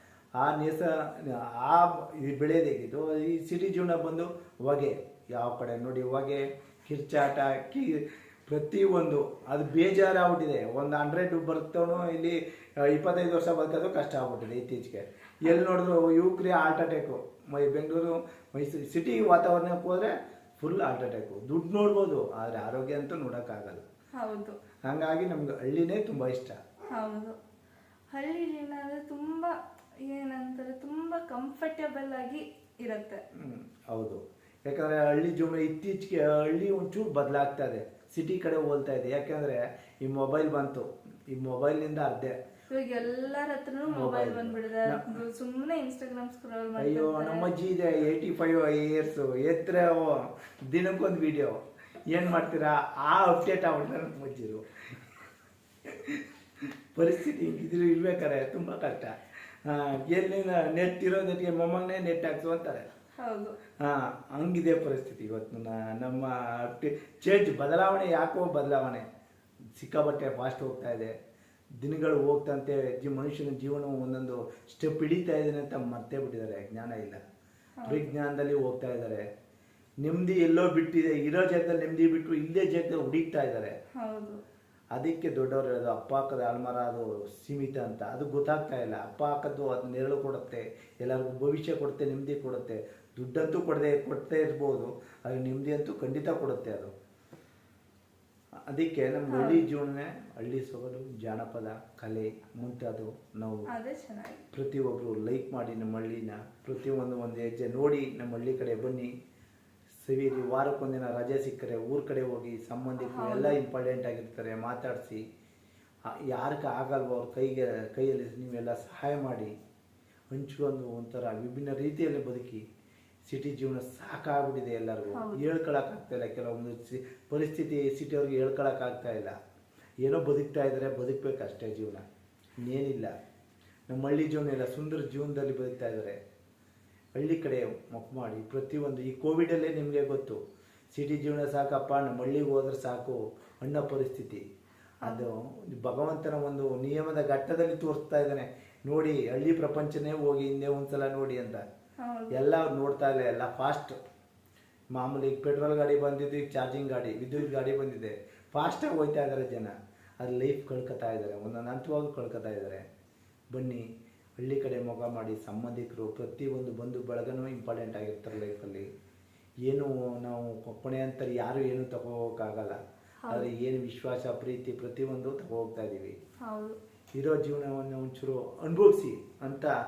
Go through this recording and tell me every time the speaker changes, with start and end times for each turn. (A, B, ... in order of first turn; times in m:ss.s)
0:00.4-0:23.8 A
0:24.2-0:24.6 B
0:24.9-0:26.6 A
0:26.9-0:27.4 B
0:28.1-0:33.2 B
0:33.4-0:42.4 A
0:42.7-0:47.5 B
0:43.9-0:45.2 A
0:46.8-0:55.0 A
0:55.9-1:02.9 A
1:03.2-1:03.6 B
1:03.8-1:09.1 A
1:09.8-1:11.1 A
1:11.8-1:17.2 A
1:17.8-1:18.1 B
1:17.9-1:19.2 A
1:20.0-1:23.7 A
1:24.0-1:24.4 B
1:24.9-1:36.9 A
1:38.7-1:43.7 A
1:39.3-1:39.6 B
1:43.7-1:44.4 B
1:44.5-1:49.1 A
1:50.0-1:55.2 A
1:53.0-1:53.6 B
1:56.3-1:59.5 A
2:00.3-2:02.6 A
2:03.3-2:09.3 A
2:05.1-2:05.5 B
2:10.0-2:12.0 A
2:12.6-2:13.1 A
2:13.9-2:16.2 A
2:17.2-2:20.4 A
2:20.9-2:24.4 A
2:25.0-2:31.6 A
2:32.0-2:32.4 B
2:32.3-2:34.0 A
2:34.9-2:42.8 A
2:43.5-2:43.8 A
2:44.4-2:48.9 A
2:49.7-2:56.2 A
2:53.2-2:53.5 B
2:56.4-2:56.8 B
2:57.2-2:59.7 A